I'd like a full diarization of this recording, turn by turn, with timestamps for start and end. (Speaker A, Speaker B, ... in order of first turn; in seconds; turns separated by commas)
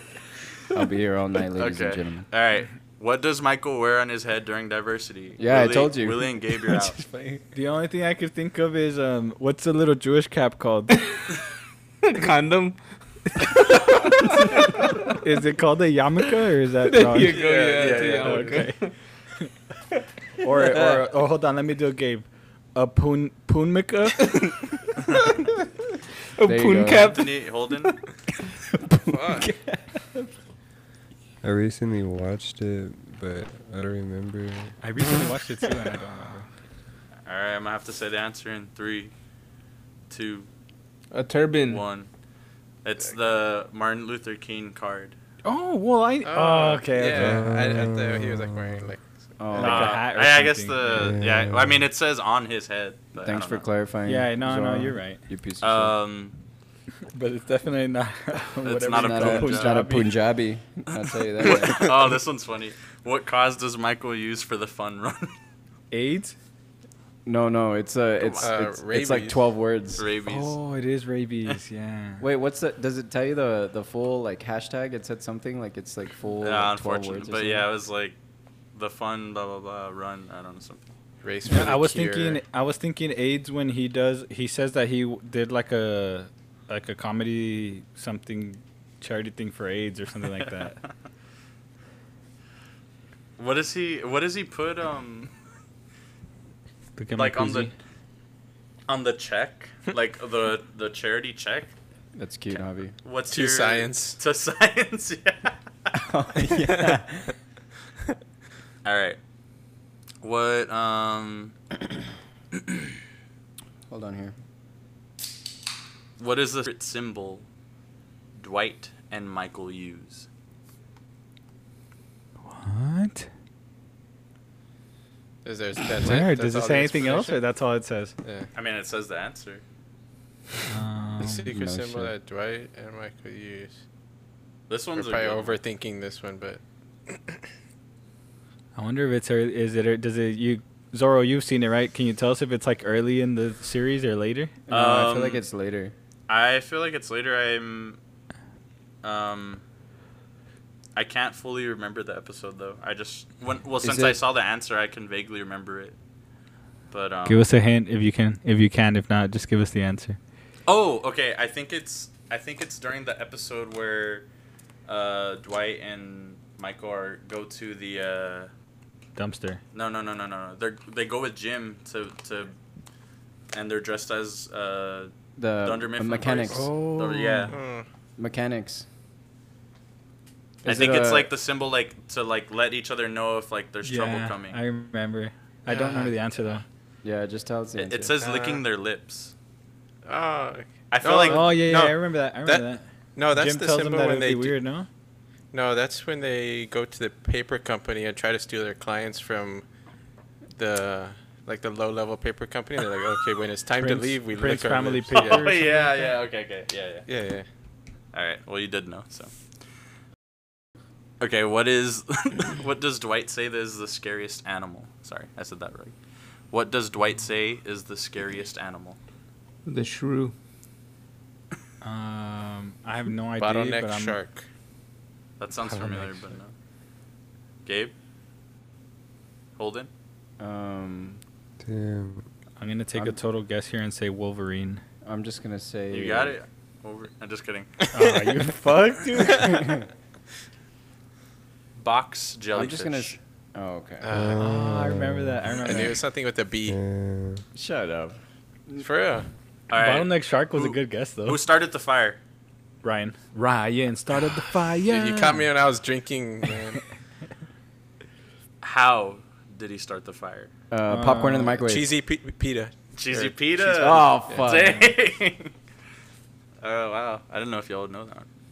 Speaker A: 0.7-2.3, Speaker B: 1.6-7.0, Speaker A: 5.4-7.4, Speaker C: 7.5-11.0, Speaker D: 12.0-12.8, Speaker C: 15.1-17.4, Speaker D: 16.9-18.9, Speaker E: 17.2-18.7, Speaker C: 18.2-18.9, Speaker C: 20.4-24.6, Speaker A: 20.6-21.1, Speaker D: 26.4-27.3, Speaker A: 26.4-27.2, Speaker B: 26.9-27.9, Speaker A: 28.9-29.8, Speaker E: 29.1-29.5, Speaker F: 31.4-34.8, Speaker C: 34.8-36.5, Speaker B: 37.3-39.1, Speaker B: 40.1-40.5, Speaker D: 41.1-41.8, Speaker B: 41.7-42.1, Speaker B: 42.8-45.1, Speaker C: 45.4-47.6, Speaker E: 46.2-49.7, Speaker F: 47.1-48.9, Speaker A: 49.4-50.0, Speaker C: 49.5-51.1, Speaker B: 49.6-53.6, Speaker F: 50.9-51.8, Speaker A: 53.2-56.0, Speaker C: 54.1-55.2, Speaker B: 55.6-56.4, Speaker C: 57.1-60.1, Speaker B: 58.6-59.8, Speaker A: 58.9-61.9, Speaker B: 61.4-65.3, Speaker C: 65.9-66.3, Speaker A: 67.3-70.1, Speaker B: 68.2-68.5, Speaker E: 68.4-69.5, Speaker B: 70.0-70.6, Speaker C: 70.3-72.2, Speaker A: 72.2-77.7, Speaker B: 76.4-78.2, Speaker B: 78.7-80.8, Speaker E: 81.2-82.4, Speaker C: 81.5-90.8, Speaker B: 93.4-95.3, Speaker C: 97.0-97.7, Speaker B: 97.2-97.7, Speaker B: 98.9-101.7, Speaker A: 102.2-102.9, Speaker B: 103.0-105.6, Speaker E: 103.3-104.2, Speaker A: 105.9-107.3, Speaker E: 106.5-107.0, Speaker B: 108.8-109.2, Speaker B: 110.2-111.5, Speaker A: 113.9-114.3, Speaker B: 116.2-117.5, Speaker B: 118.4-120.3, Speaker C: 122.5-123.3, Speaker E: 125.5-127.4, Speaker C: 126.0-128.1, Speaker E: 128.2-128.5, Speaker B: 128.6-129.6, Speaker C: 130.7-131.5, Speaker E: 131.2-133.8, Speaker A: 131.5-132.1, Speaker B: 134.7-135.6, Speaker E: 134.9-137.4, Speaker C: 138.8-144.6, Speaker A: 144.7-145.9, Speaker B: 144.7-145.4, Speaker B: 146.3-148.0, Speaker B: 149.0-149.6, Speaker B: 151.0-156.0, Speaker A: 153.8-154.2, Speaker B: 156.9-157.5, Speaker C: 157.3-160.2, Speaker B: 160.7-164.3, Speaker B: 164.9-168.5, Speaker C: 169.2-169.6, Speaker B: 169.7-172.6, Speaker B: 173.5-177.6, Speaker A: 175.4-176.7, Speaker C: 176.5-177.6, Speaker E: 177.5-177.9, Speaker A: 178.2-178.9, Speaker A: 180.6-181.3, Speaker B: 180.6-184.6, Speaker C: 183.8-186.6, Speaker E: 185.7-186.2, Speaker A: 187.0-188.1, Speaker B: 187.8-189.3, Speaker C: 188.2-188.6, Speaker E: 190.1-194.6, Speaker B: 190.9-191.6, Speaker C: 191.3-194.9, Speaker E: 195.5-199.6, Speaker E: 200.5-205.5, Speaker C: 203.8-206.2, Speaker B: 205.1-207.1, Speaker E: 207.1-207.5, Speaker B: 208.1-209.3, Speaker B: 211.2-215.9, Speaker B: 216.5-219.0, Speaker D: 219.7-220.3, Speaker C: 221.8-224.2, Speaker E: 223.4-224.4, Speaker B: 225.4-226.5, Speaker C: 225.6-226.3, Speaker B: 227.7-227.9, Speaker B: 229.6-229.9, Speaker A: 230.4-231.2, Speaker F: 231.6-232.3, Speaker C: 232.6-234.8, Speaker A: 235.0-236.4, Speaker B: 235.9-237.9, Speaker C: 237.9-239.8, Speaker A: 239.5-239.8, Speaker B: 241.8-243.2, Speaker A: 242.5-244.3, Speaker E: 244.0-244.4, Speaker F: 244.1-245.6, Speaker C: 244.4-246.0, Speaker E: 245.6-246.8, Speaker F: 246.7-247.4, Speaker A: 247.5-248.9, Speaker E: 248.8-249.3, Speaker B: 249.7-252.2, Speaker C: 249.7-251.4, Speaker C: 252.8-255.5, Speaker E: 254.8-256.8, Speaker B: 258.6-260.5, Speaker A: 260.7-261.9, Speaker C: 260.9-261.6, Speaker E: 261.6-264.4, Speaker B: 262.9-265.5, Speaker A: 263.6-264.9, Speaker B: 266.6-268.3